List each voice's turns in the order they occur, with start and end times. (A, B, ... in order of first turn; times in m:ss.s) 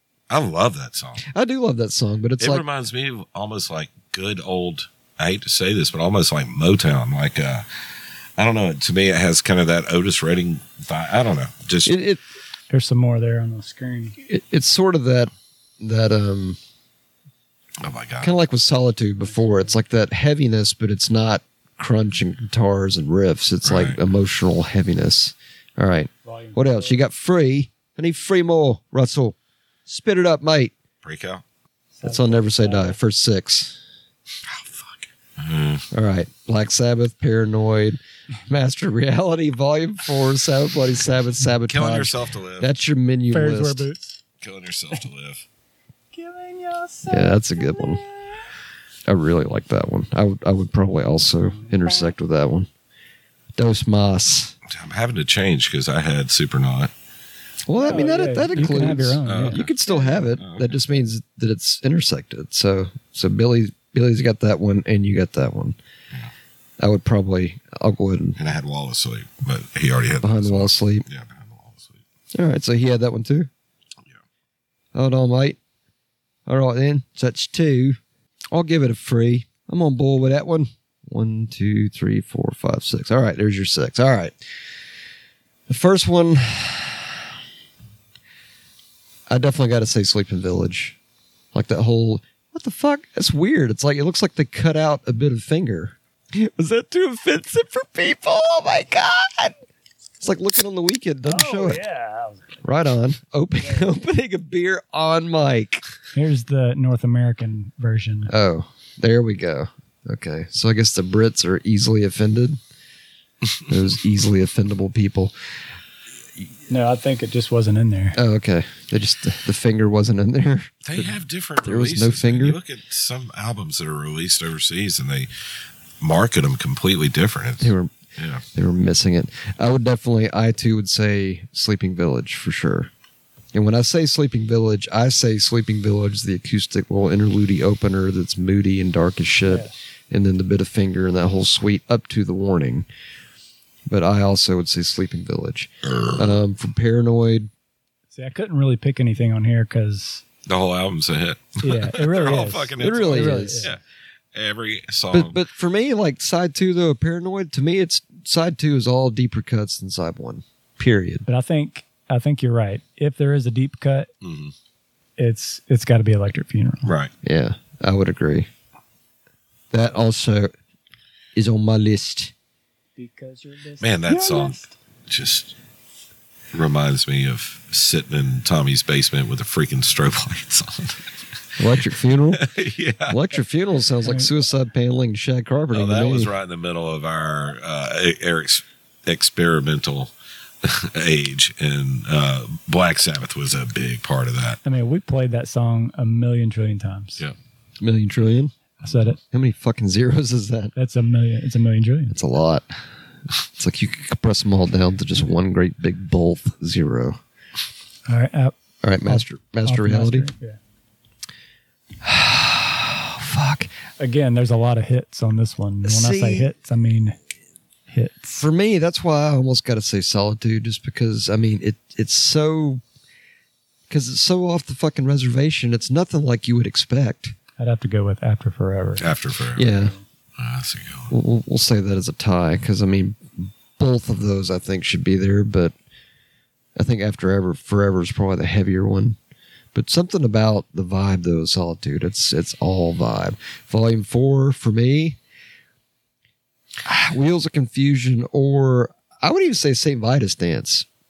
0:00.3-0:01.2 A
0:01.3-0:02.6 B
0:02.4-0:07.7 A
0:08.4-0:12.0 A
0:11.9-0:12.2 B
0:12.7-0:14.2 C
0:14.2-0:16.6 B
0:17.8-0:18.3 A
0:18.2-0:30.7 B
0:19.3-0:19.7 C
0:23.6-0:24.0 A
0:26.2-0:27.0 C
0:31.0-0:31.4 A
0:32.0-0:33.0 C
0:32.0-0:33.8 B
0:34.4-0:35.9 A
0:35.9-0:43.8 B
0:41.7-0:42.7 A
0:43.3-0:44.2 C
0:44.4-0:45.4 A
0:46.1-0:48.4 C
0:47.1-0:48.0 B
0:49.1-0:52.7 B
0:51.5-0:52.2 C
0:53.6-0:54.6 B
0:54.7-0:56.9 A
0:57.7-1:05.8 B
0:57.8-1:00.1 C
0:59.2-1:00.8 A
1:06.8-1:08.4 B
1:08.4-1:12.0 A
1:10.2-1:11.1 B
1:12.3-1:13.5 B
1:14.9-1:15.6 B
1:16.5-1:18.0 B
1:18.5-1:24.4 B
1:25.7-1:27.2 B
1:29.3-1:31.0 B
1:31.5-1:39.6 B
1:40.2-1:41.8 B
1:41.3-1:42.6 C
1:42.6-1:45.8 B
1:43.6-1:43.9 C
1:46.1-1:48.3 C
1:48.3-1:52.6 B
1:53.7-1:55.3 B
1:56.7-1:58.2 C
1:58.2-2:02.6 B
2:00.8-2:05.3 A
2:06.0-2:08.4 A
2:07.6-2:07.9 B
2:08.5-2:12.9 B
2:13.5-2:22.9 B
2:19.5-2:19.7 C
2:23.9-2:27.5 B
2:25.9-2:26.4 A
2:28.1-2:30.2 C
2:30.5-2:33.8 A
2:31.6-2:33.7 C
2:32.8-2:33.7 B
2:34.3-2:35.4 A
2:35.1-2:41.2 B
2:41.3-2:44.1 C
2:44.2-2:44.5 A
2:45.2-2:46.9 C
2:46.8-2:47.1 A
2:47.2-2:48.5 B
2:49.7-2:50.5 B
2:51.4-2:52.3 B
2:53.0-2:54.7 C
2:53.8-2:55.6 A
2:56.5-3:01.1 A
3:01.6-3:02.5 B
3:02.3-3:03.2 A
3:03.1-3:06.3 B
3:04.0-3:04.3 C
3:05.7-3:14.6 A
3:14.6-3:17.2 C
3:17.8-3:18.6 B
3:18.8-3:19.2 A
3:18.8-3:19.2 C
3:19.3-3:20.7 B
3:20.8-3:22.2 C
3:22.1-3:22.7 B
3:23.4-3:27.2 B
3:28.1-3:28.5 C
3:28.8-3:30.3 B
3:29.0-3:30.6 C
3:32.0-3:33.7 B
3:34.0-3:37.2 C
3:35.8-3:36.5 B
3:37.9-3:38.4 C
3:38.4-3:42.8 B
3:43.9-3:47.4 B
3:47.6-3:49.1 C
3:49.0-3:49.7 A
3:49.6-3:49.9 B
3:49.7-3:50.0 C
3:50.4-3:51.1 A
3:51.1-3:55.7 B
3:56.8-3:59.2 B
3:59.7-4:05.2 B
4:06.8-4:10.9 B